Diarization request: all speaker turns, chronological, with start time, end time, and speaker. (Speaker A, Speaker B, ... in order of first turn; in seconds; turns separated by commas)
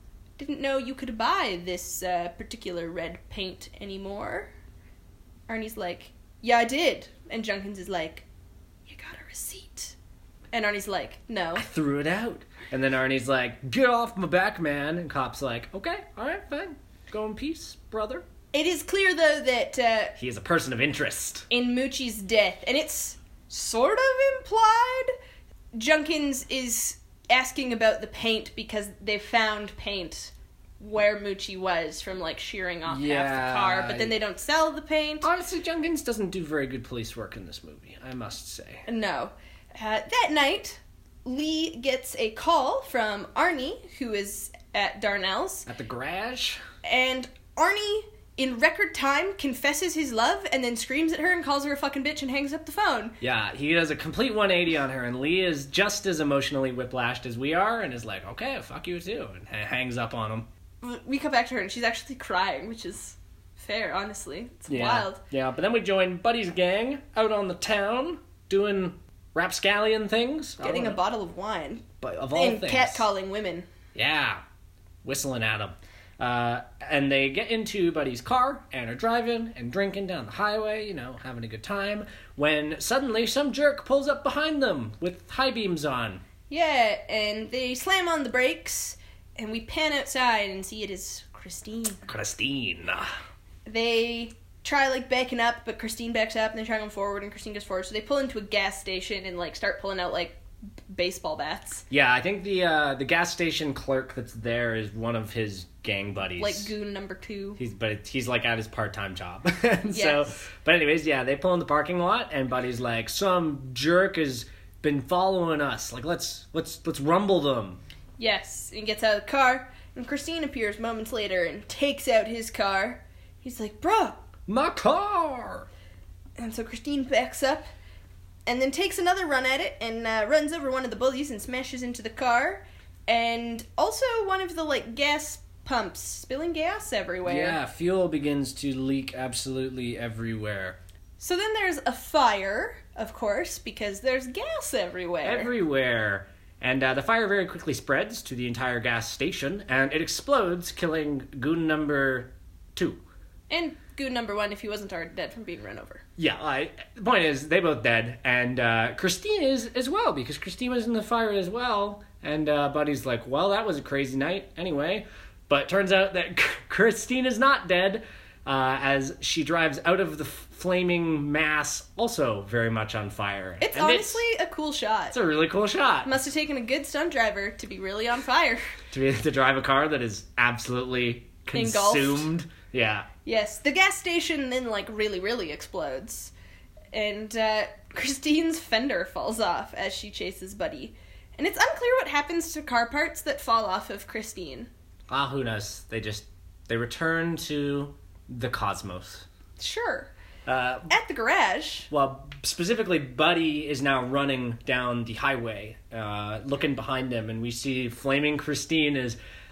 Speaker A: 0.4-4.5, Speaker A: 5.5-8.3, Speaker A: 8.9-10.0, Speaker A: 10.5-11.7, Speaker B: 11.6-18.3, Speaker A: 18.5-20.2, Speaker B: 20.2-21.5, Speaker A: 21.5-25.1, Speaker A: 25.7-35.3, Speaker B: 32.9-34.1, Speaker B: 35.2-38.8, Speaker A: 38.9-45.7, Speaker B: 45.7-46.6, Speaker A: 46.8-53.2, Speaker B: 53.2-60.5, Speaker A: 60.8-65.2, Speaker B: 64.7-71.0, Speaker A: 70.6-73.7, Speaker B: 72.0-73.1, Speaker B: 74.0-74.4, Speaker B: 75.0-86.2, Speaker A: 86.5-92.0, Speaker B: 92.1-93.1, Speaker A: 93.7-100.4, Speaker A: 100.9-101.8, Speaker B: 101.9-106.7, Speaker A: 106.4-107.6, Speaker B: 107.6-117.8, Speaker A: 109.9-110.4, Speaker A: 118.2-124.2, Speaker B: 124.5-125.7, Speaker A: 126.4-127.7, Speaker A: 128.5-137.6, Speaker B: 137.2-140.8, Speaker A: 141.2-145.5, Speaker B: 145.2-153.0, Speaker A: 153.5-156.0, Speaker B: 156.2-174.2, Speaker A: 173.6-175.2, Speaker B: 175.1-176.1, Speaker A: 176.1-178.6, Speaker B: 178.9-183.1, Speaker A: 181.5-182.3, Speaker A: 183.2-186.3, Speaker A: 186.9-194.7, Speaker B: 195.1-199.3, Speaker A: 199.6-200.1, Speaker B: 200.5-200.9, Speaker A: 200.9-201.9, Speaker B: 201.9-209.2